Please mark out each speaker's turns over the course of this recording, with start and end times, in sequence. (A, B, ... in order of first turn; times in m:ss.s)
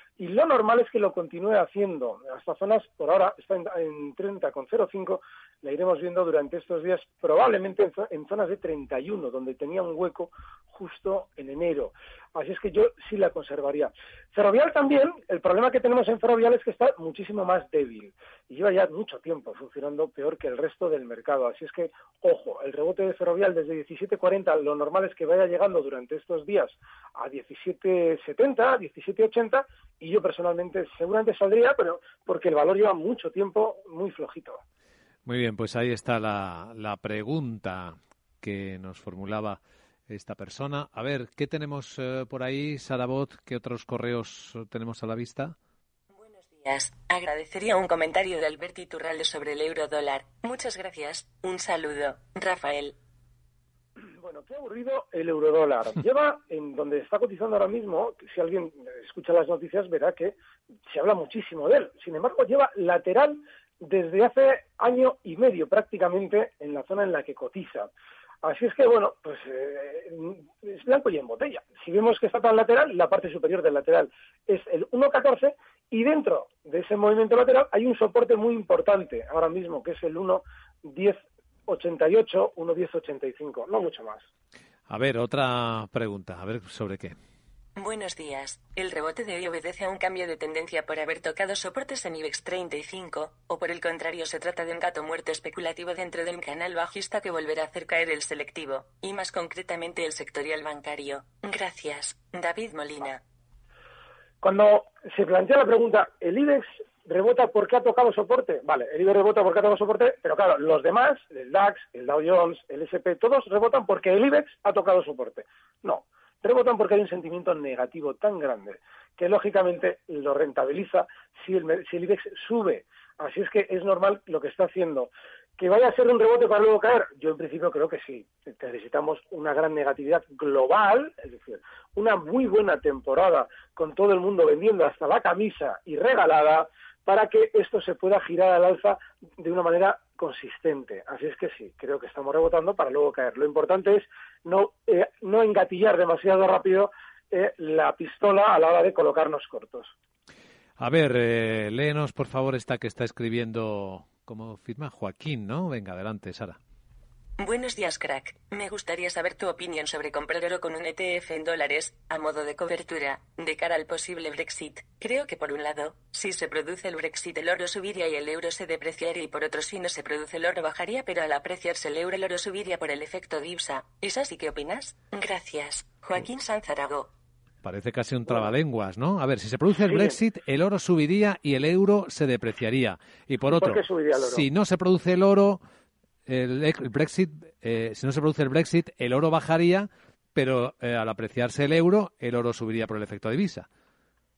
0:00.2-0:34.6 A
0:35.2-0:45.6 B
0:46.1-0:53.0 C
0:54.0-1:00.4 A
1:00.9-1:07.9 A
1:08.4-1:24.2 A
1:24.9-1:27.2 B
1:27.8-1:43.2 C
1:44.4-2:29.9 A
2:30.8-2:36.6 B
2:37.4-2:57.1 C
2:57.6-3:05.6 B
2:59.8-3:00.1 A
3:03.5-3:04.4 A
3:06.3-3:13.7 B